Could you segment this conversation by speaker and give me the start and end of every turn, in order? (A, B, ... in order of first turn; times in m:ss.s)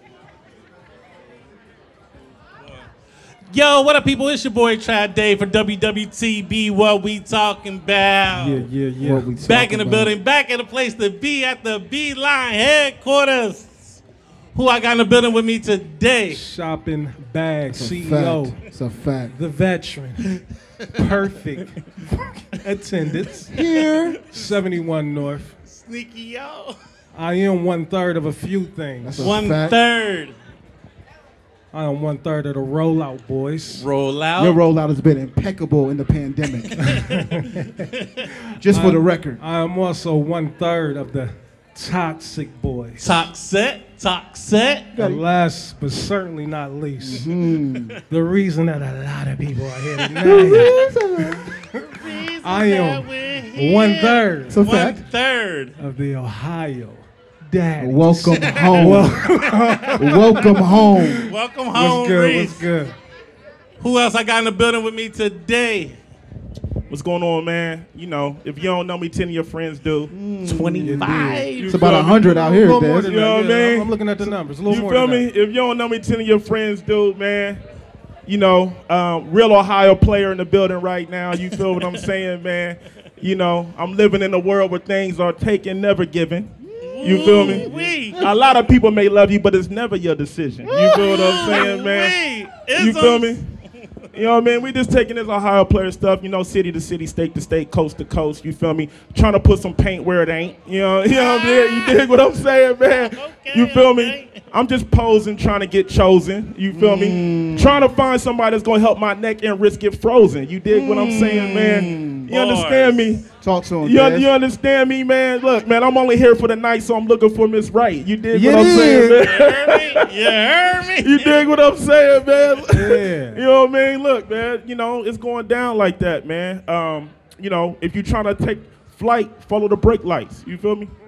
0:02.6-0:02.9 A
0:03.5-0:08.7 A
0:08.3-0:09.3 B
0:09.0-0:10.1 C
0:09.4-0:14.0 A
0:14.5-0:16.4 A
0:16.3-0:18.6 B
0:17.7-0:19.3 C
0:19.3-0:20.3 B
0:20.9-0:23.5 B
0:23.5-0:24.2 C
0:23.5-0:24.0 A
0:24.3-0:25.5 B
0:25.7-0:26.8 A
0:27.1-0:29.3 B
0:29.0-0:29.8 C
0:29.2-0:30.4 A
0:31.7-0:33.8 B
0:33.7-0:34.6 A
0:34.4-0:37.0 C
0:36.8-0:37.9 B
0:38.0-0:38.3 A
0:38.6-0:39.4 C
0:38.7-0:43.2 B
0:43.0-0:44.9 A
0:44.9-0:45.2 C
0:45.0-0:47.3 B
0:47.0-0:48.0 C
0:48.1-0:50.7 B
0:50.2-0:51.5 C
0:51.7-0:54.6 B
0:51.8-0:55.8 A
0:54.5-0:55.0 C
0:55.8-1:02.9 B
0:57.8-0:59.2 C
0:58.3-1:00.0 A
0:59.9-1:01.3 C
1:01.2-1:02.7 A
1:03.8-1:05.9 A
1:06.9-1:10.1 D
1:10.1-1:13.1 C
1:10.4-1:11.9 A
1:10.8-1:11.4 B
1:11.6-1:12.5 D
1:12.3-1:15.2 B
1:13.0-1:17.6 D
1:18.2-1:26.5 D
1:26.6-1:28.3 C
1:26.8-1:28.2 A
1:27.0-1:32.1 D
1:30.6-1:33.4 A
1:32.8-1:33.4 D
1:34.1-1:53.2 D
1:41.1-1:42.0 A
1:42.9-1:44.4 A
1:46.7-1:47.8 C
1:50.7-1:52.3 C
1:50.9-1:53.2 A
1:53.4-1:54.3 C
1:53.8-2:00.1 D
1:58.3-1:59.2 B
1:58.7-2:01.4 A
2:01.0-2:10.9 D
2:02.7-2:03.4 B